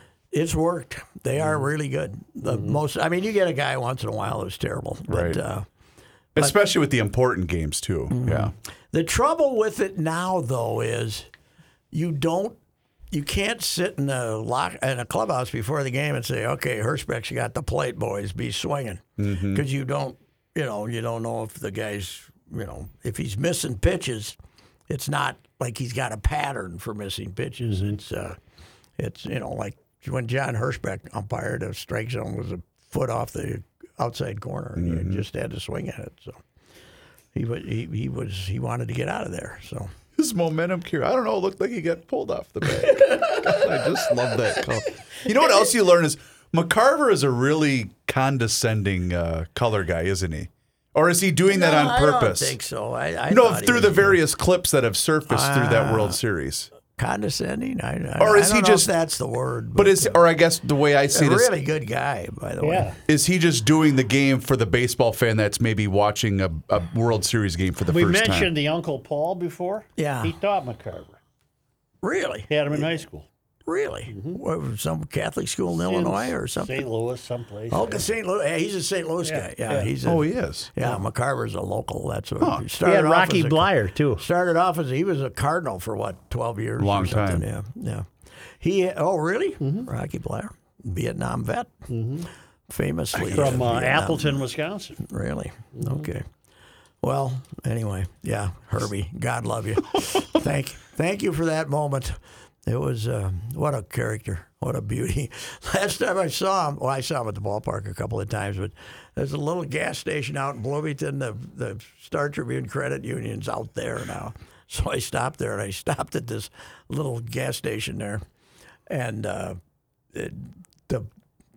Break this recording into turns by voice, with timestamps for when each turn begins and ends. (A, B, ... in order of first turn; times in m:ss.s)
0:00.3-0:05.6 A
0:02.4-0:02.8 B
0:05.1-0:05.4 C
0:06.4-0:08.5 C
0:08.1-0:11.3 A
0:11.9-0:12.6 A
0:13.1-0:24.4 A
0:19.2-0:19.6 C
0:24.9-0:28.4 A
0:27.6-0:28.0 B
0:29.0-0:36.4 A
0:34.8-0:35.2 C
0:37.3-0:39.9 A
0:40.2-0:52.6 C
0:42.8-0:43.6 A
0:51.5-0:54.2 A
0:53.3-0:56.7 C
0:55.3-0:56.2 A
0:57.0-1:00.2 A
0:58.2-0:58.9 C
0:59.8-1:01.5 C
1:01.1-1:02.9 A
1:02.6-1:03.0 B
1:03.1-1:08.5 C
1:07.9-1:11.2 B
1:10.0-1:10.3 A
1:12.0-1:12.9 A
1:12.5-1:13.2 B
1:13.7-1:16.8 A
1:14.1-1:14.4 B
1:15.7-1:18.1 B
1:17.7-1:28.1 A
1:19.2-1:19.9 B
1:20.0-1:20.7 C
1:22.4-1:22.6 C
1:22.8-1:24.2 B
1:26.8-1:27.4 C
1:28.6-1:31.7 A
1:29.6-1:29.9 B
1:31.9-1:32.3 B
1:32.7-1:34.4 A
1:33.3-1:35.0 B
1:35.0-1:36.2 A
1:35.8-1:36.0 B
1:37.0-1:58.2 A
1:58.9-1:59.6 A
2:00.1-2:01.1 A